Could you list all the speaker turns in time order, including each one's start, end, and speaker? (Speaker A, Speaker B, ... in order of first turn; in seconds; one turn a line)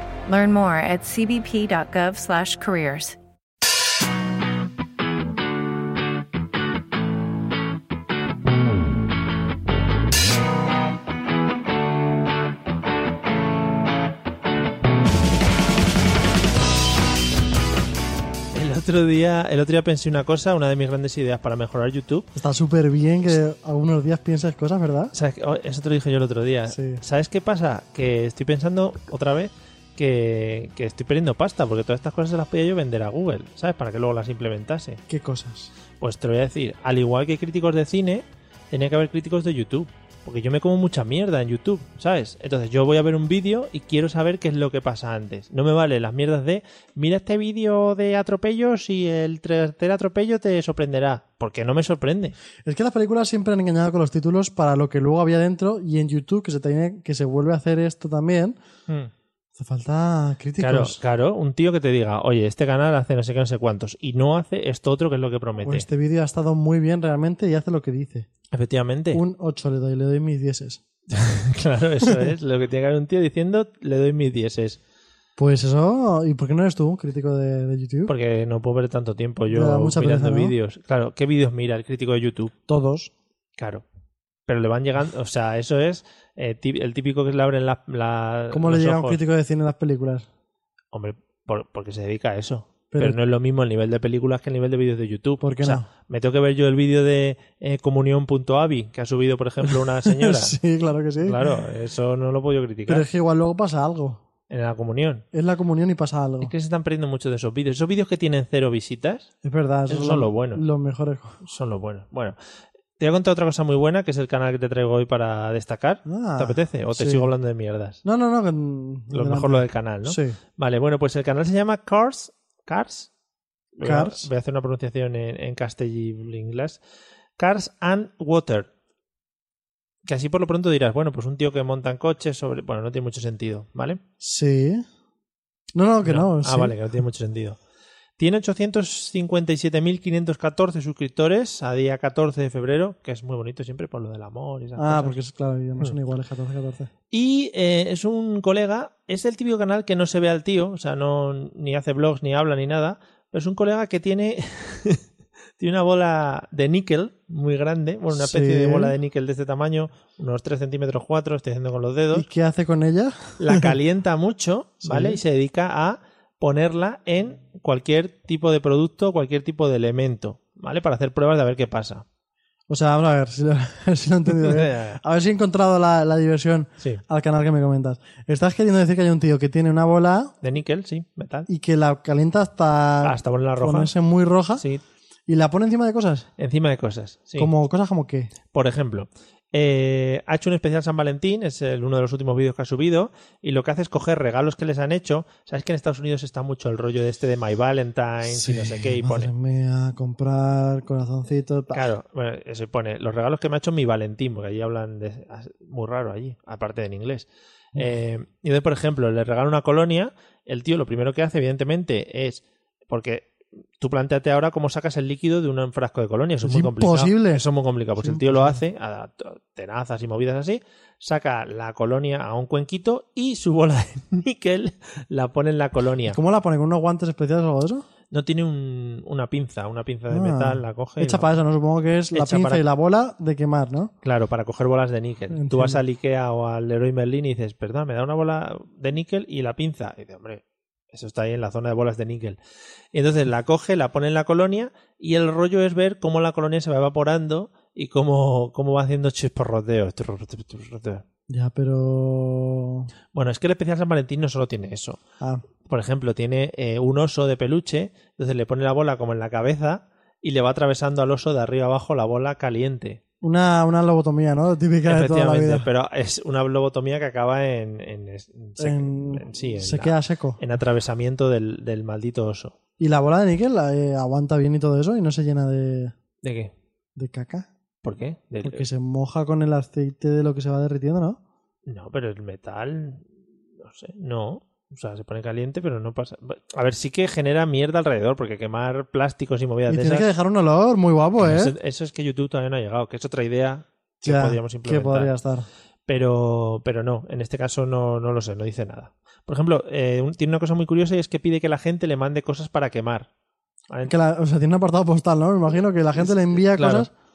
Speaker A: 0.3-3.1
Speaker B: 18.5-22.3
Speaker C: 22.3-25.1
Speaker B: 25.1-35.0
Speaker C: 26.7-27.0
Speaker C: 35.1-35.7
Speaker B: 36.0-52.4
Speaker C: 52.6-58.5
Speaker C: 59.6-61.0
Speaker B: 60.6-65.9
Speaker C: 65.6-68.3
Speaker B: 68.5-69.2
Speaker C: 69.1-70.8
Speaker B: 71.1-74.8
Speaker C: 75.4-78.1
Speaker B: 78.1-82.5
Speaker C: 79.5-80.5
Speaker C: 82.7-83.1
Speaker B: 83.6-83.8
Speaker B: 84.5-89.2
Speaker C: 88.5-90.2
Speaker B: 90.9-100.5
Speaker C: 92.9-93.2
Speaker C: 95.4-95.9
Speaker C: 99.6-101.4
Speaker B: 101.2-103.1
Speaker C: 102.9-104.2
Speaker B: 104.5-105.2
Speaker C: 105.3-106.5
Speaker B: 106.4-109.3
Speaker C: 109.4-111.4
Speaker B: 109.9-110.6
Speaker B: 111.4-112.3
Speaker B: 113.0-118.0
Speaker C: 116.0-117.3
Speaker C: 118.0-120.4
Speaker B: 119.1-123.1
Speaker B: 123.8-126.8
Speaker C: 123.8-124.3
Speaker B: 127.4-128.7
Speaker B: 130.1-134.0
Speaker C: 134.2-134.8
Speaker C: 135.7-136.8
Speaker B: 136.0-137.6
Speaker B: 138.2-145.1
Speaker C: 144.8-146.9
Speaker B: 147.1-155.0
Speaker B: 155.6-162.2
Speaker C: 158.1-158.9
Speaker C: 162.1-163.7
Speaker B: 163.4-172.0
Speaker C: 164.8-165.2
Speaker C: 172.7-180.3
Speaker B: 174.3-175.0
Speaker B: 180.4-181.5
Speaker C: 181.5-184.7
Speaker B: 183.0-183.9
Speaker B: 184.6-184.8
Speaker C: 185.3-186.3
Speaker B: 186.4-187.5
Speaker C: 187.4-188.3
Speaker B: 188.5-199.3
Speaker C: 198.3-201.9
Speaker B: 201.7-226.2
Speaker C: 216.4-217.4
Speaker C: 218.0-218.6
Speaker C: 226.1-227.8
Speaker B: 228.1-231.3
Speaker C: 230.1-233.9
Speaker B: 232.1-232.6
Speaker B: 234.0-242.4
Speaker C: 235.3-235.8
Speaker B: 242.9-251.0
Speaker C: 251.3-252.9
Speaker B: 253.1-255.0
Speaker B: 255.7-263.0
Speaker C: 263.2-265.7
Speaker B: 264.9-272.6
Speaker C: 268.6-270.4
Speaker C: 272.8-275.9
Speaker B: 276.2-276.5
Speaker C: 276.9-277.5
Speaker B: 277.8-278.6
Speaker C: 278.4-281.2
Speaker B: 281.7-283.1
Speaker B: 283.6-290.1
Speaker C: 289.7-291.5
Speaker B: 291.2-295.1
Speaker C: 294.0-295.5
Speaker B: 295.9-303.1
Speaker C: 303.9-306.9
Speaker B: 306.0-306.9